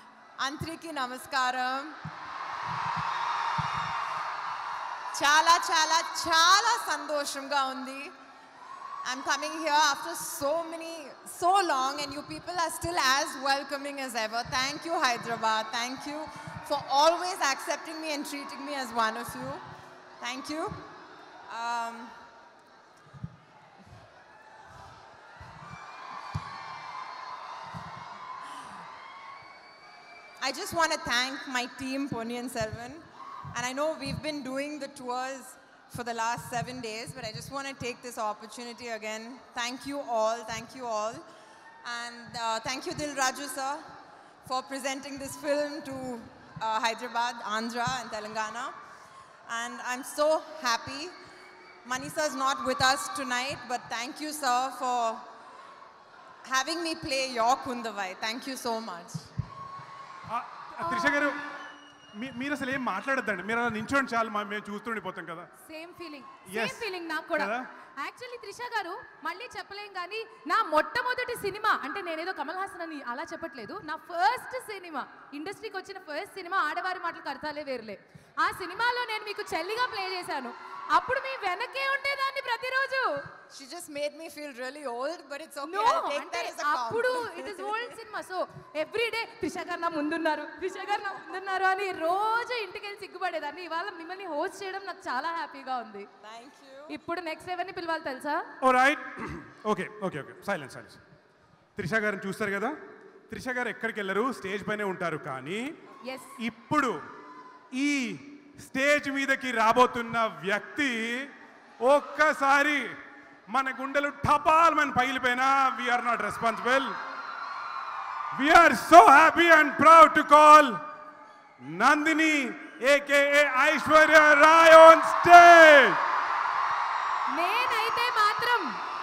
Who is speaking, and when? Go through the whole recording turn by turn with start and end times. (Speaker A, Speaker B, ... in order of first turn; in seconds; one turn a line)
Speaker A: 0.4-1.9
Speaker A: 5.1-8.1
Speaker A: 9.0-19.6
Speaker A: 20.2-20.8
Speaker A: 21.5-22.1
Speaker A: 30.4-41.2
Speaker A: 41.8-43.8
Speaker A: 44.4-48.7
Speaker A: 49.5-51.1
Speaker A: 51.8-55.2
Speaker A: 56.5-59.3
Speaker B: 60.3-61.4
Speaker C: 60.9-61.2
Speaker B: 62.1-65.5
Speaker C: 65.6-83.2
Speaker B: 66.5-67.7
Speaker A: 83.5-88.0
Speaker C: 85.6-96.1
Speaker A: 96.2-97.0
Speaker C: 96.9-98.5
Speaker B: 98.6-101.0
Speaker B: 101.8-102.8
Speaker B: 103.3-105.7
Speaker C: 106.1-106.3
Speaker B: 106.4-106.9
Speaker B: 107.7-111.3
Speaker B: 111.8-112.9
Speaker B: 113.5-116.9
Speaker B: 118.3-120.8
Speaker B: 121.7-126.0
Speaker C: 127.3-128.7